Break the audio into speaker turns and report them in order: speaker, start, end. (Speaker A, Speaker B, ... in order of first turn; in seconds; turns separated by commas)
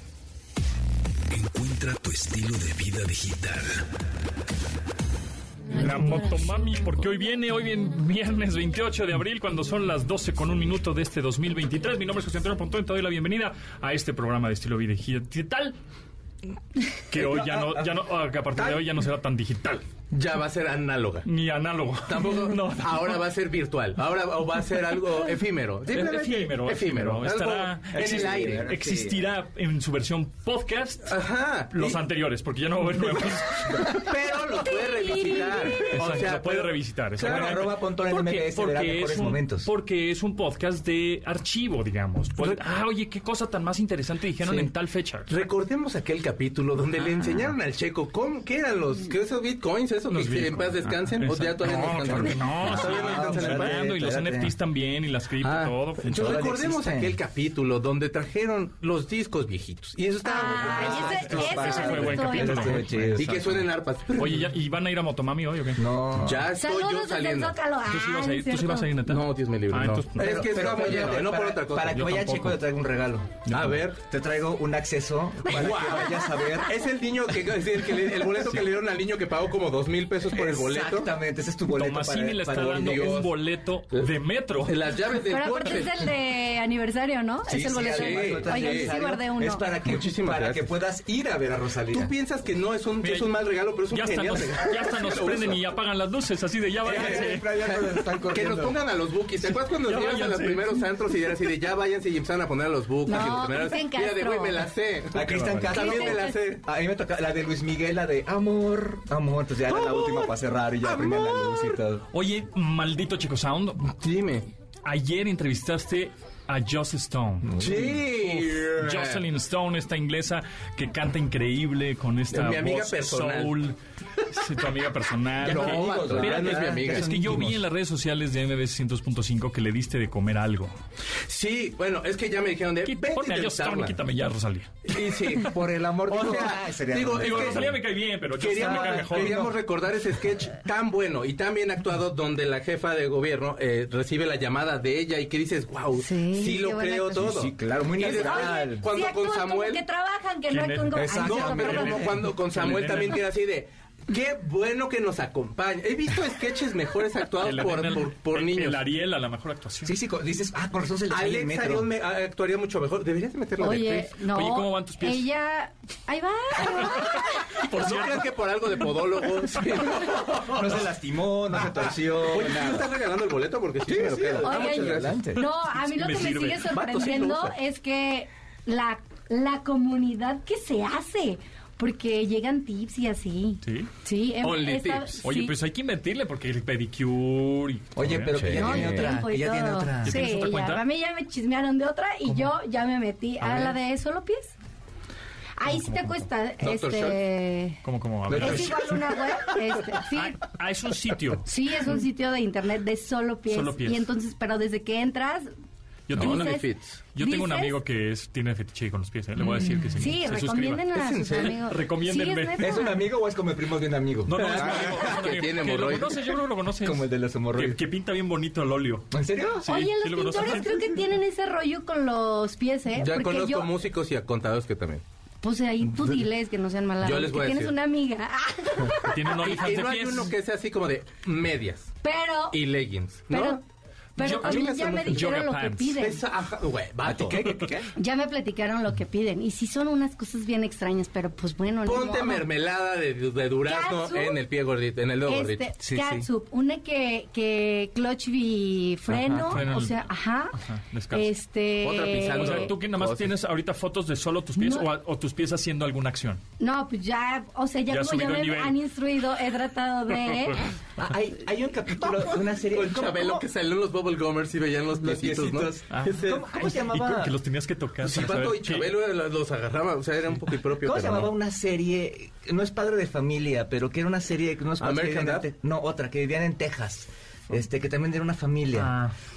Speaker A: 1.3-3.8, Speaker B: 5.7-15.8, Speaker B: 17.1-19.8, Speaker C: 20.1-21.3, Speaker B: 21.2-23.1, Speaker C: 22.1-28.7, Speaker B: 25.9-31.2, Speaker D: 27.9-29.2, Speaker C: 31.1-32.0, Speaker B: 31.7-33.9, Speaker C: 33.7-37.7, Speaker E: 34.6-35.9, Speaker B: 35.9-45.3, Speaker D: 37.2-39.7, Speaker C: 44.4-44.7, Speaker C: 45.3-53.8, Speaker B: 50.1-56.4, Speaker D: 51.7-54.5, Speaker C: 55.4-62.1, Speaker D: 56.0-57.1, Speaker E: 60.2-62.8, Speaker D: 60.2-63.5, Speaker B: 61.2-63.6, Speaker C: 63.1-64.5, Speaker B: 64.2-65.8, Speaker D: 65.8-66.5, Speaker C: 66.2-67.6, Speaker E: 66.5-68.9, Speaker B: 67.8-70.4, Speaker C: 69.0-72.6, Speaker D: 70.2-76.7, Speaker B: 73.5-73.8, Speaker C: 73.5-73.9, Speaker C: 75.5-81.1, Speaker D: 80.3-83.3, Speaker B: 81.7-84.7, Speaker C: 82.5-83.3, Speaker C: 84.7-86.2, Speaker E: 85.3-89.6, Speaker D: 87.5-92.1, Speaker C: 87.8-88.9, Speaker C: 89.8-90.7, Speaker C: 91.9-95.6, Speaker B: 93.0-93.3, Speaker B: 93.9-97.5, Speaker D: 96.8-98.8, Speaker C: 96.9-97.7, Speaker C: 98.3-106.6, Speaker B: 99.8-100.8, Speaker E: 103.0-104.7, Speaker D: 105.1-112.0, Speaker B: 105.2-105.6, Speaker E: 105.7-106.4, Speaker C: 109.7-111.8, Speaker B: 112.1-113.9, Speaker C: 113.9-114.5, Speaker B: 114.8-117.6, Speaker D: 117.4-118.1, Speaker C: 117.6-119.2, Speaker B: 118.1-123.8, Speaker C: 122.3-123.5, Speaker B: 124.3-130.8, Speaker C: 125.4-127.5, Speaker D: 125.4-127.6, Speaker C: 131.3-134.0, Speaker B: 132.8-134.8, Speaker C: 134.9-137.8, Speaker D: 135.1-137.7, Speaker B: 137.1-139.5, Speaker C: 138.4-149.8, Speaker D: 138.5-139.5, Speaker E: 145.9-147.2, Speaker D: 146.8-148.8, Speaker E: 148.0-152.1, Speaker B: 150.5-153.2, Speaker D: 150.9-152.1, Speaker C: 151.2-158.8, Speaker B: 157.4-159.9, Speaker D: 159.8-161.9, Speaker C: 161.1-164.2, Speaker E: 163.6-167.5, Speaker B: 164.3-165.3, Speaker B: 166.8-168.3, Speaker C: 167.7-170.8, Speaker D: 170.4-172.9, Speaker C: 171.7-175.2, Speaker D: 173.9-175.4, Speaker E: 174.4-185.5, Speaker B: 175.8-176.7, Speaker C: 176.6-177.6, Speaker B: 183.6-183.9, Speaker C: 184.4-185.2, Speaker B: 185.2-188.4, Speaker D: 187.9-190.2, Speaker C: 188.3-189.2, Speaker E: 188.5-194.5, Speaker B: 190.0-190.8, Speaker B: 193.4-193.8, Speaker E: 195.6-197.8, Speaker B: 195.7-196.2, Speaker C: 196.6-197.2, Speaker B: 197.8-198.9, Speaker D: 198.3-198.8, Speaker E: 198.3-200.4, Speaker B: 200.1-201.5, Speaker E: 201.4-205.5, Speaker B: 203.5-204.1, Speaker B: 206.1-206.6, Speaker C: 206.1-207.0, Speaker E: 206.2-207.8, Speaker B: 207.1-212.8, Speaker E: 210.0-213.0, Speaker C: 210.9-211.6, Speaker D: 212.6-215.2, Speaker B: 214.2-219.1, Speaker C: 214.3-216.2, Speaker D: 216.8-217.8, Speaker D: 219.1-219.7, Speaker B: 219.6-220.9, Speaker E: 219.7-223.7, Speaker C: 222.9-225.0, Speaker E: 225.4-229.2, Speaker C: 225.8-226.2, Speaker C: 227.0-227.8, Speaker B: 229.0-230.3, Speaker C: 229.4-231.9, Speaker E: 232.0-232.6, Speaker C: 232.5-233.6, Speaker E: 233.3-233.6, Speaker E: 234.2-236.2, Speaker B: 234.2-236.0, Speaker C: 234.2-235.4, Speaker C: 236.0-237.7, Speaker D: 237.0-237.9, Speaker E: 237.9-242.4, Speaker C: 241.8-245.7, Speaker E: 243.6-244.4, Speaker E: 245.2-250.6, Speaker D: 245.8-246.2, Speaker D: 249.2-249.4, Speaker B: 249.4-250.1, Speaker B: 250.6-251.3, Speaker E: 251.1-252.7, Speaker C: 251.8-253.3, Speaker B: 252.4-256.4, Speaker E: 254.6-254.9, Speaker E: 256.6-260.6, Speaker B: 257.9-258.8, Speaker B: 260.1-260.6, Speaker D: 261.0-263.4, Speaker C: 262.5-266.4, Speaker D: 265.0-267.3, Speaker B: 265.9-268.9, Speaker C: 268.0-271.3, Speaker D: 270.8-278.9, Speaker C: 274.8-275.5, Speaker B: 278.8-279.1